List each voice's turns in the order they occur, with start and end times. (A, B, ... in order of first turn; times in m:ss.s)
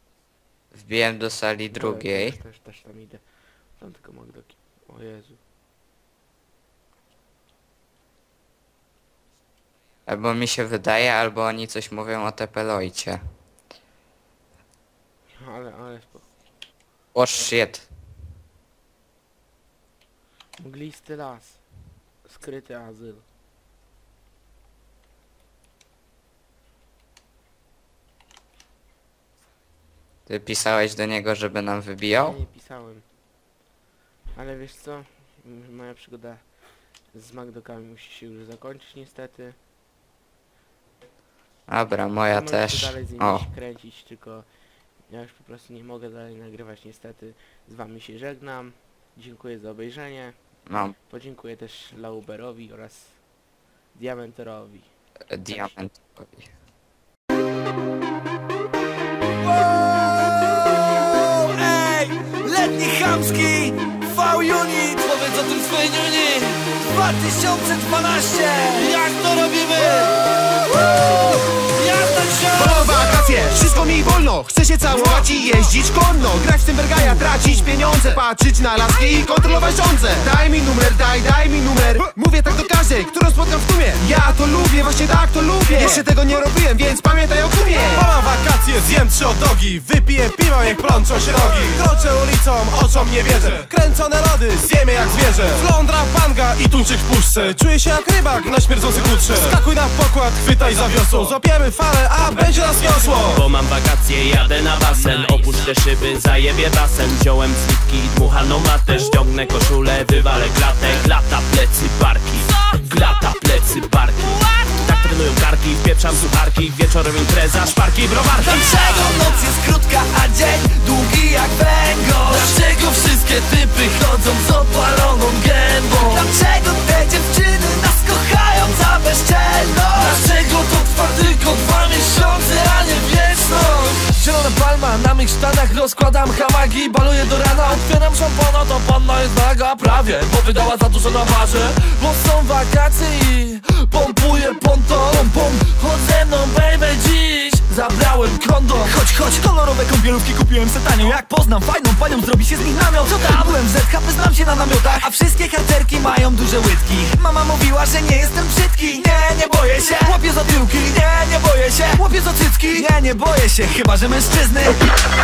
0:00.7-0:02.4 A
0:01.7-0:03.2 B
0:03.8-0:05.4 B
0:10.1-0:13.2 A
0:15.4-0:16.3 B
0:17.1-0:17.9 A
0:20.6-0:21.6 B
0:22.2-0:23.2 B
0:30.3-0:32.4 A
0:32.2-0:33.0 B
0:34.4-0:36.4 B
0:37.1-0:39.6 B
0:41.7-0:43.5 A
0:42.3-0:44.5 B
0:45.1-0:50.4 B
0:50.7-0:51.0 A
0:51.1-0:53.2 B
0:53.9-0:54.9 B
0:55.3-0:56.5 A
1:01.8-1:02.3 C
1:02.8-1:03.7 C
1:04.4-1:06.6 C
1:08.8-1:09.9 C
1:11.8-1:12.8 C
1:12.6-1:28.0 D
1:14.9-1:15.3 E
1:21.9-1:22.6 E
1:25.7-1:26.6 E
1:27.6-1:43.5 E
1:42.3-1:58.7 F
1:58.5-2:29.0 C
2:28.8-2:44.8 G
2:33.0-2:33.5 C